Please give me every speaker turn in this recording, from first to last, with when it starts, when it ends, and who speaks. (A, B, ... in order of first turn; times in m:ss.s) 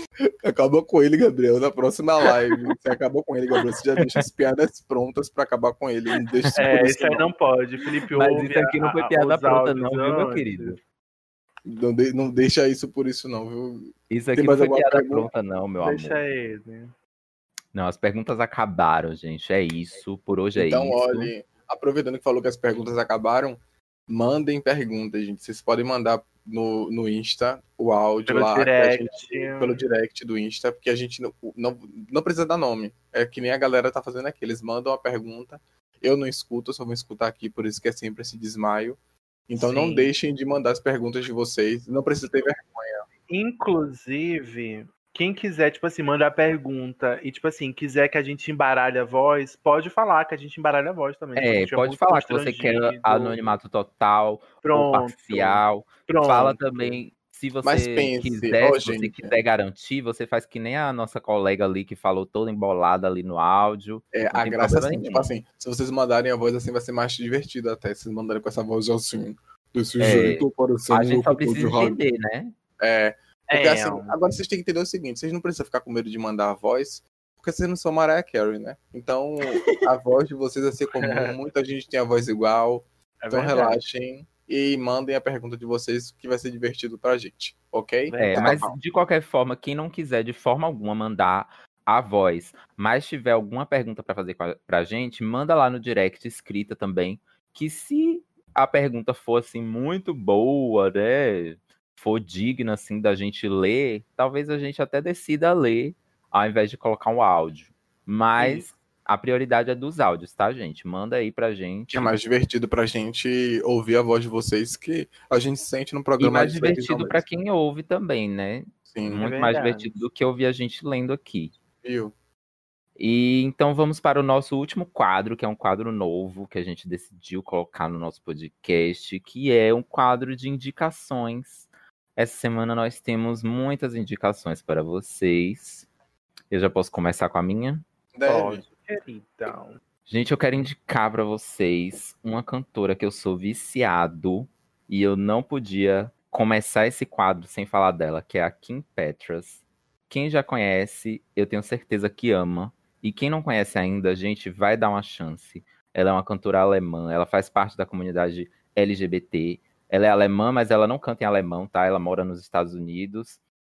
0:00.4-0:07.3 A
0:06.6-0:10.8 B
0:08.1-0:10.8 C
0:11.6-0:15.3 A
0:14.1-0:16.2 C
0:15.8-0:16.9 B
0:17.7-0:21.3 C
0:20.6-0:43.0 A
0:28.3-0:29.8 B
0:39.6-0:40.1 B
0:43.3-0:53.5 B
0:51.4-1:05.3 C
0:54.6-0:57.0 B
0:57.6-0:59.3 A
1:04.1-1:12.0 A
1:10.0-1:12.5 C
1:12.8-1:28.7 A
1:13.5-1:14.1 B
1:21.0-1:21.4 B
1:23.2-1:23.8 B
1:28.1-1:28.7 B
1:28.2-1:52.1 C
1:48.4-1:48.6 B
1:51.9-1:57.2 A
1:56.2-2:01.5 C
1:58.9-1:59.2 A
1:59.2-2:00.0 B
2:01.8-2:02.1 A
2:03.0-2:15.9 C
2:16.5-2:17.8 C
2:18.1-2:18.6 A
2:18.2-2:19.8 B
2:20.1-2:43.4 C